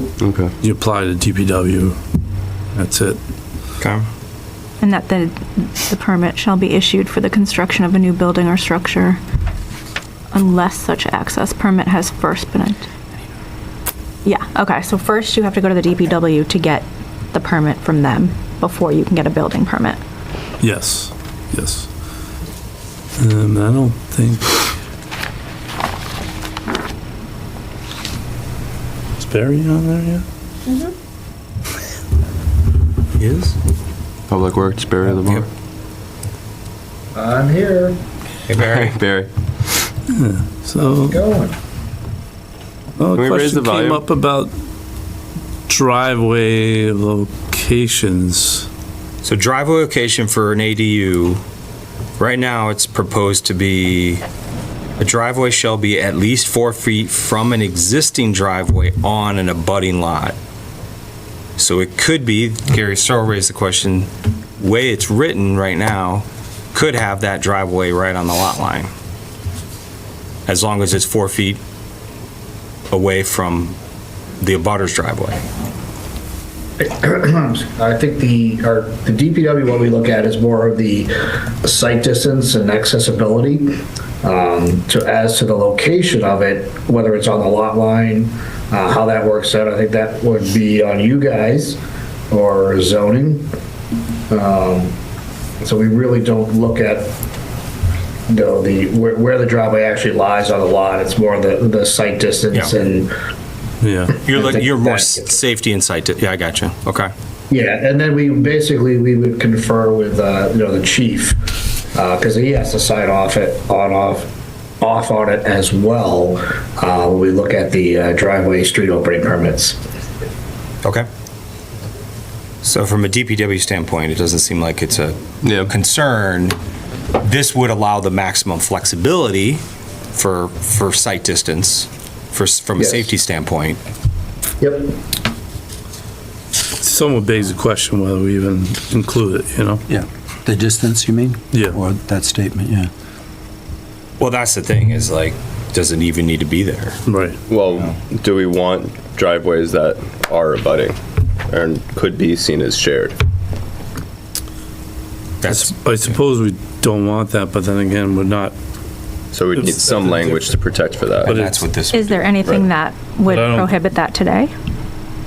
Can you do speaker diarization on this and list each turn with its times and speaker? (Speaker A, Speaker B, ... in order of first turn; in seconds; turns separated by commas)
Speaker A: 0.2-0.5, Speaker B: 0.6-2.0, Speaker B: 2.7-3.2, Speaker C: 3.8-4.0, Speaker D: 4.8-9.2, Speaker D: 10.3-12.9, Speaker D: 14.2-20.0, Speaker B: 20.6-21.9, Speaker B: 23.2-24.6, Speaker B: 29.2-30.2, Speaker A: 34.3-35.5, Speaker E: 37.1-38.0, Speaker C: 38.5-39.0, Speaker A: 38.6-39.3, Speaker B: 40.1-41.2, Speaker E: 41.0-41.6, Speaker B: 43.0-44.5, Speaker A: 43.1-44.0, Speaker B: 45.7-48.7, Speaker C: 49.2-51.4, Speaker C: 52.2-54.2, Speaker C: 55.0-60.4, Speaker C: 61.6-68.9, Speaker C: 70.5-71.6, Speaker C: 72.9-73.8, Speaker C: 74.4-75.4, Speaker E: 76.8-83.7, Speaker E: 84.2-91.8, Speaker E: 92.3-93.5, Speaker E: 94.3-95.0, Speaker E: 95.6-97.1, Speaker E: 98.3-103.1, Speaker B: 103.8-104.2, Speaker E: 104.2-105.3, Speaker C: 104.3-107.1, Speaker E: 107.5-119.8, Speaker C: 122.6-126.6, Speaker C: 127.2-129.6, Speaker C: 130.2-133.8, Speaker E: 132.8-133.1, Speaker E: 134.6-135.0, Speaker B: 136.8-139.8, Speaker F: 139.9-142.9, Speaker B: 141.5-141.8, Speaker C: 144.2-147.0, Speaker B: 147.1-147.4, Speaker A: 147.5-151.0, Speaker A: 151.5-153.2, Speaker C: 155.4-155.7, Speaker B: 155.5-158.6, Speaker A: 159.3-161.4, Speaker B: 159.5-160.5, Speaker C: 161.2-162.3, Speaker B: 161.3-161.5, Speaker D: 161.9-164.5, Speaker B: 163.3-163.7